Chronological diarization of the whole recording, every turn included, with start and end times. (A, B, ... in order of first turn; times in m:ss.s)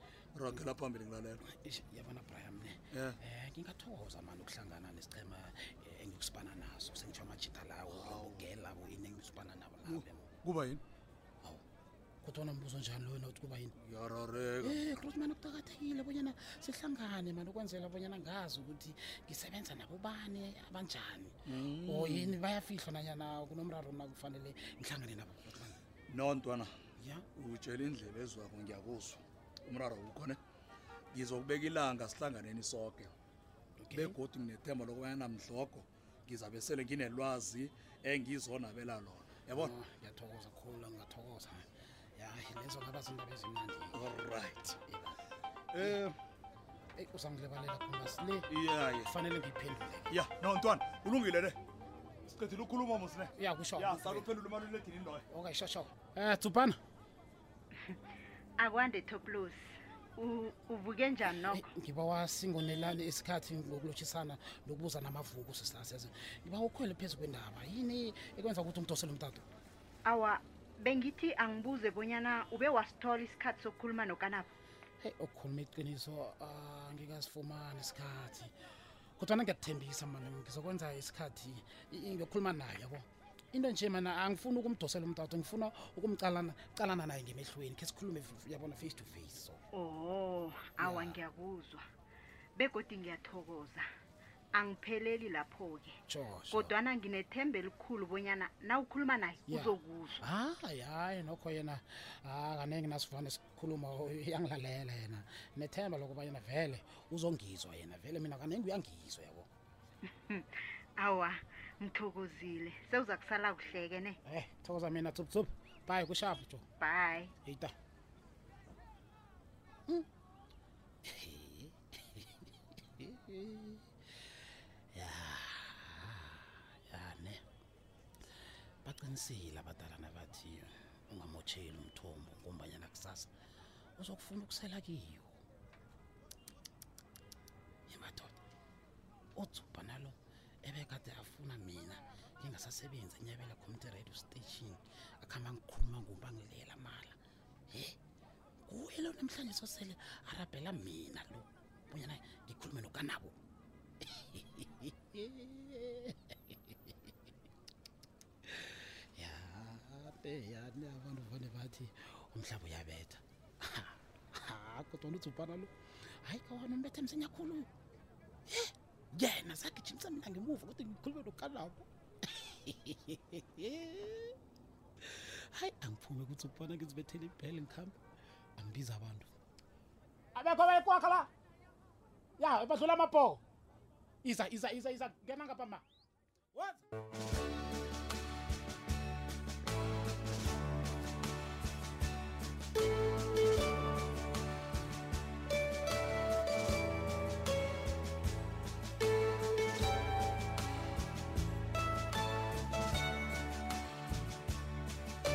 0:00.3-0:01.4 A
0:01.4-0:10.3 B
0:02.9-0:03.2 A
0:07.9-0:08.5 A
0:09.8-0:10.8 A
0:12.2-0:13.7 B
0:13.8-0:14.8 A
0:14.6-0:25.8 B
0:21.5-0:22.4 A
0:26.1-0:26.7 A
0:27.0-0:27.3 B
0:27.3-0:30.4 A
0:31.1-0:33.1 A
0:33.8-0:34.2 B
0:33.9-0:39.7 A
0:39.5-0:44.1 B
0:43.9-0:44.8 A
0:44.8-0:45.2 B
0:45.7-0:46.0 A
0:45.8-0:46.2 B
0:47.0-0:48.5 B
0:48.5-0:49.1 A
0:49.0-0:50.1 B
0:50.1-0:51.6 A
0:52.3-0:55.2 A
0:53.4-0:54.3 B
0:55.3-0:56.8 B
0:58.6-1:01.7 C
1:01.4-1:09.4 B
1:10.0-1:14.5 C
1:15.0-1:18.5 B
1:19.2-1:29.6 B
1:29.7-1:31.8 C
1:30.8-1:31.2 B
1:32.6-1:33.9 C
1:34.5-1:40.2 C
1:36.1-1:36.7 B
1:39.5-1:49.5 B
1:50.3-1:54.2 C
1:54.2-1:56.6 B
1:56.8-1:57.3 C
1:57.4-1:57.7 B
2:01.0-2:03.8 B
2:04.9-2:07.4 B
2:08.8-2:13.3 B
2:14.0-2:15.3 B
2:17.9-2:18.4 B
2:19.3-2:27.2 B
2:27.7-2:28.0 B
2:28.6-2:33.4 B
2:34.0-2:36.9 B
2:38.4-2:47.7 B
2:48.5-2:54.3 B
2:55.0-2:58.0 B
2:58.6-2:59.3 B
3:00.3-3:01.3 B
3:02.4-3:03.4 B
3:04.2-3:05.8 B
3:06.5-3:06.8 B